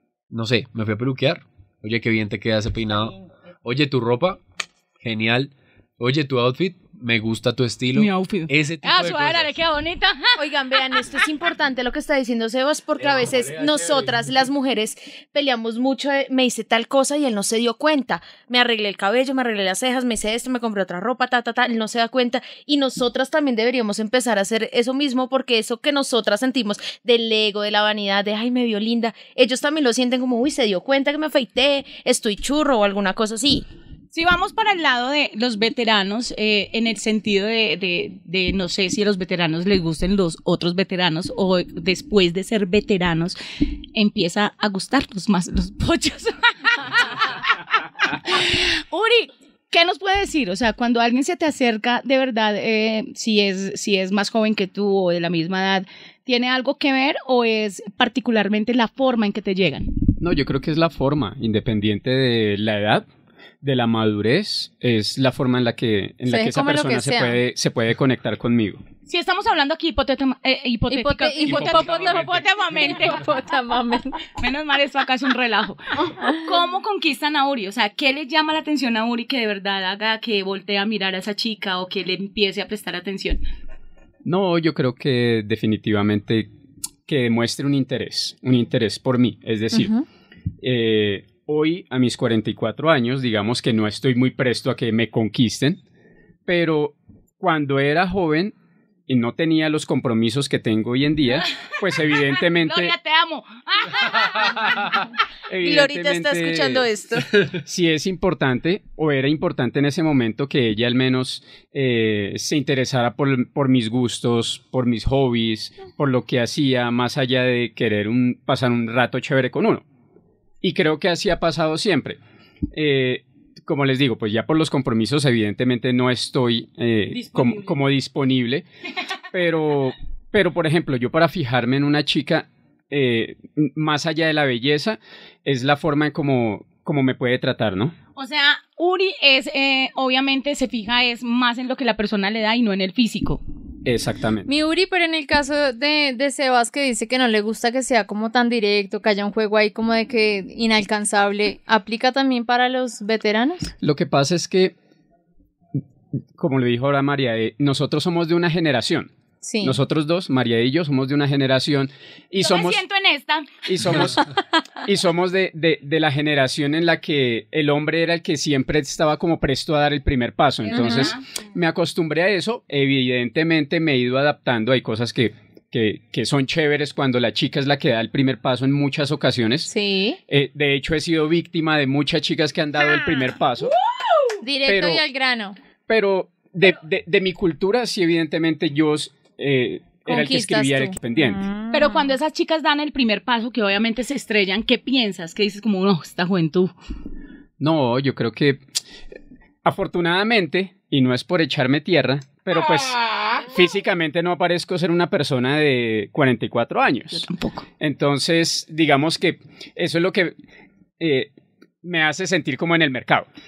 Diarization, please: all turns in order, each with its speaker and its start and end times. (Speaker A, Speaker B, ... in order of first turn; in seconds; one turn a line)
Speaker A: 0.3-4.4
Speaker A: 5.0-9.6
Speaker B: 7.9-10.4
Speaker C: 10.4-33.7
Speaker A: 13.0-14.5
Speaker B: 34.1-43.4
Speaker B: 44.0-59.9
Speaker D: 60.2-63.1
Speaker D: 63.6-68.8
Speaker E: 66.3-67.4
Speaker B: 69.1-73.2
Speaker E: 70.9-74.2
Speaker A: 71.6-72.4
Speaker B: 74.4-83.4
Speaker D: 84.2-86.5
Speaker D: 87.1-89.9
Speaker E: 89.7-90.0
Speaker D: 90.6-95.8
Speaker D: 96.5-98.5
Speaker D: 99.1-103.0
Speaker B: 102.6-104.9
Speaker D: 105.5-106.9
Speaker C: 105.6-107.3
Speaker D: 107.6-119.8
Speaker D: 120.6-122.2
Speaker D: 122.7-128.7
Speaker B: 127.1-127.8
Speaker D: 129.3-137.9
Speaker B: 138.2-143.4
Speaker D: 143.8-144.5
Speaker E: 144.5-153.7
Speaker D: 153.8-154.7
Speaker D: 156.4-159.1
Speaker E: 159.4-159.8
Speaker D: 159.6-162.8
Speaker B: 162.4-163.5
Speaker D: 163.7-164.3
Speaker D: 164.8-179.7
Speaker B: 170.6-171.2
Speaker E: 170.8-171.0
Speaker E: 179.7-180.2
Speaker D: 180.3-183.8
Speaker E: 184.4-185.6
Speaker D: 184.7-185.0
Speaker D: 185.9-191.4
Speaker E: 190.1-192.2
Speaker B: 191.7-196.7
Speaker D: 197.6-198.6
Speaker D: 199.7-207.3
Speaker B: 202.8-203.4
Speaker B: 207.1-207.7
Speaker D: 207.8-210.3
Speaker D: 211.0-211.3
Speaker D: 211.8-213.3